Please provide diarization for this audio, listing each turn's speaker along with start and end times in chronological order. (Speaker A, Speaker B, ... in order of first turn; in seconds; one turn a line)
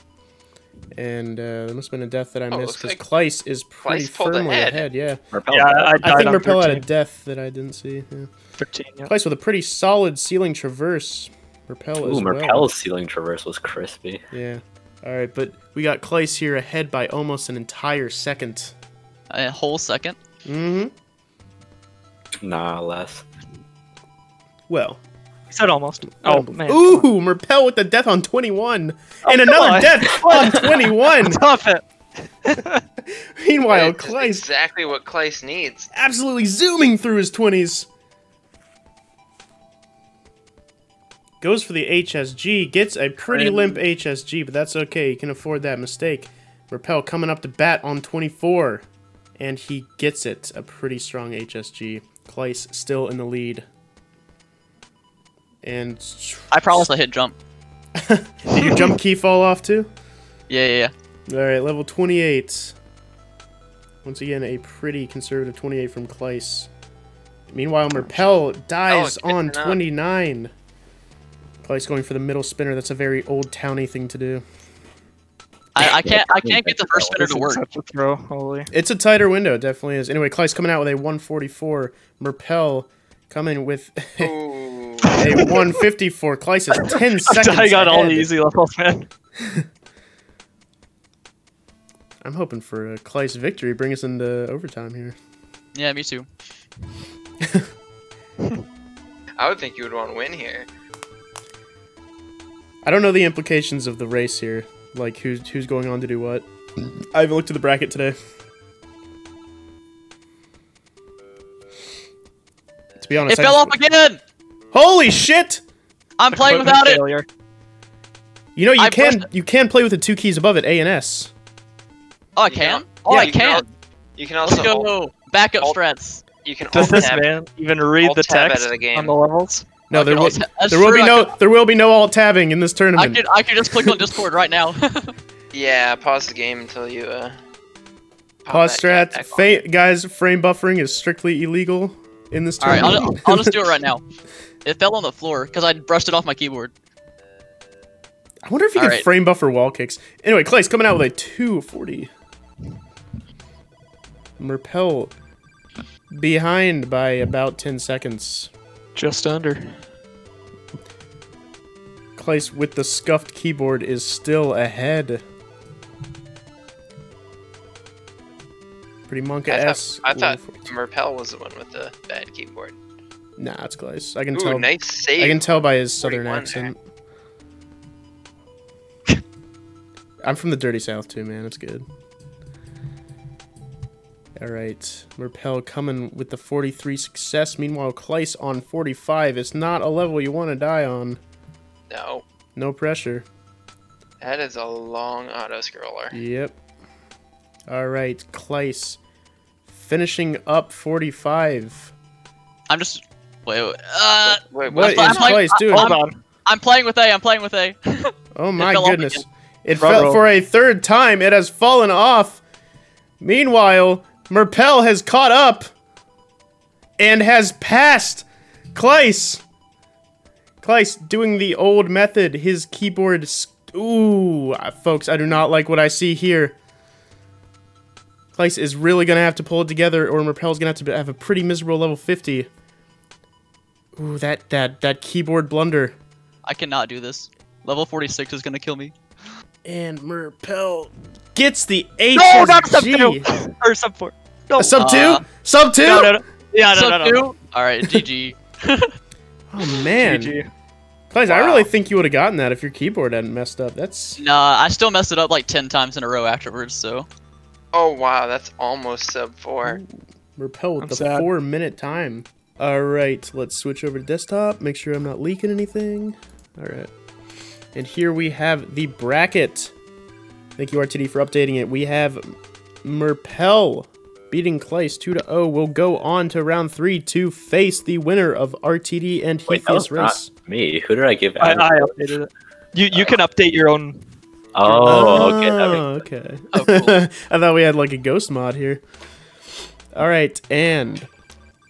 Speaker A: 0.9-5.2
Speaker B: 2.5-3.0
Speaker B: 3.9-4.9
Speaker C: 5.3-6.3
Speaker D: 5.5-6.8
Speaker A: 6.0-8.3
Speaker D: 8.6-9.1
Speaker A: 9.0-12.7
Speaker C: 12.0-14.2
Speaker A: 14.3-18.7
Speaker E: 19.3-20.2
Speaker A: 20.4-20.9
Speaker C: 22.4-23.2
Speaker A: 24.7-25.0
Speaker D: 25.5-27.1
Speaker A: 26.1-31.4
Speaker D: 29.2-31.8
Speaker D: 32.4-32.8
Speaker A: 33.4-34.4
Speaker B: 33.7-35.9
Speaker A: 35.9-37.9
Speaker A: 41.4-48.9
Speaker D: 43.4-43.7
Speaker A: 49.4-53.6
Speaker A: 55.6-56.9
Speaker E: 56.5-57.4
Speaker A: 58.0-59.9
Speaker E: 60.5-60.9
Speaker A: 61.3-62.8
Speaker A: 64.0-66.7
Speaker A: 67.5-70.5
Speaker B: 68.9-69.8
Speaker A: 71.6-74.4
Speaker E: 75.8-77.6
Speaker C: 75.8-77.1
Speaker D: 77.2-78.7
Speaker A: 78.7-84.3
Speaker B: 84.2-85.5
Speaker A: 85.1-88.3
Speaker D: 87.2-89.1
Speaker A: 92.2-95.2
Speaker E: 95.7-96.3
Speaker B: 99.4-100.7
Speaker A: 102.8-108.2
Speaker A: 113.0-113.8
Speaker E: 113.3-114.2
Speaker A: 114.7-115.6
Speaker E: 116.2-117.0
Speaker D: 116.3-117.3
Speaker A: 118.6-121.3
Speaker E: 118.8-119.3
Speaker E: 122.4-123.7
Speaker B: 122.5-124.9
Speaker E: 124.4-126.2
Speaker B: 126.4-127.3
Speaker D: 126.7-129.7
Speaker B: 128.0-129.2
Speaker A: 129.9-133.2
Speaker E: 129.9-131.3
Speaker E: 133.0-135.2
Speaker B: 135.5-137.4
Speaker B: 138.4-139.6
Speaker A: 138.5-143.6
Speaker E: 142.6-144.0
Speaker E: 144.7-146.7
Speaker A: 148.4-152.1
Speaker E: 148.8-149.1
Speaker A: 154.4-155.1
Speaker A: 156.1-158.5
Speaker D: 158.9-159.8
Speaker A: 162.2-165.2
Speaker A: 169.1-170.7
Speaker B: 169.5-172.8
Speaker A: 173.4-176.8
Speaker B: 174.3-176.7
Speaker A: 180.2-181.8
Speaker A: 184.4-191.2
Speaker B: 191.9-192.2
Speaker A: 192.6-193.2
Speaker B: 194.2-196.2
Speaker A: 196.1-196.6
Speaker A: 197.7-199.0
Speaker A: 199.7-201.9
Speaker E: 202.7-209.2
Speaker B: 204.3-205.4
Speaker A: 204.7-206.0
Speaker D: 205.5-206.2
Speaker A: 208.3-212.4
Speaker D: 209.8-210.2
Speaker A: 213.2-215.7
Speaker A: 217.0-219.4
Speaker A: 220.6-226.6
Speaker A: 228.4-232.5
Speaker A: 234.0-235.9
Speaker E: 236.4-238.9
Speaker A: 239.7-243.3
Speaker D: 242.2-244.7
Speaker A: 244.6-246.2
Speaker E: 244.8-245.2
Speaker D: 245.8-247.3
Speaker E: 246.7-248.4
Speaker D: 248.7-248.9
Speaker A: 249.5-250.4
Speaker D: 249.9-250.5
Speaker A: 251.1-254.2
Speaker E: 251.3-251.6
Speaker E: 254.2-257.1
Speaker B: 257.7-259.8
Speaker A: 259.6-266.9
Speaker D: 260.8-261.3
Speaker A: 267.7-269.7
Speaker A: 270.6-280.3
Speaker C: 279.5-282.1
Speaker D: 281.4-284.1
Speaker C: 284.5-285.9
Speaker A: 284.7-288.8
Speaker A: 289.9-291.1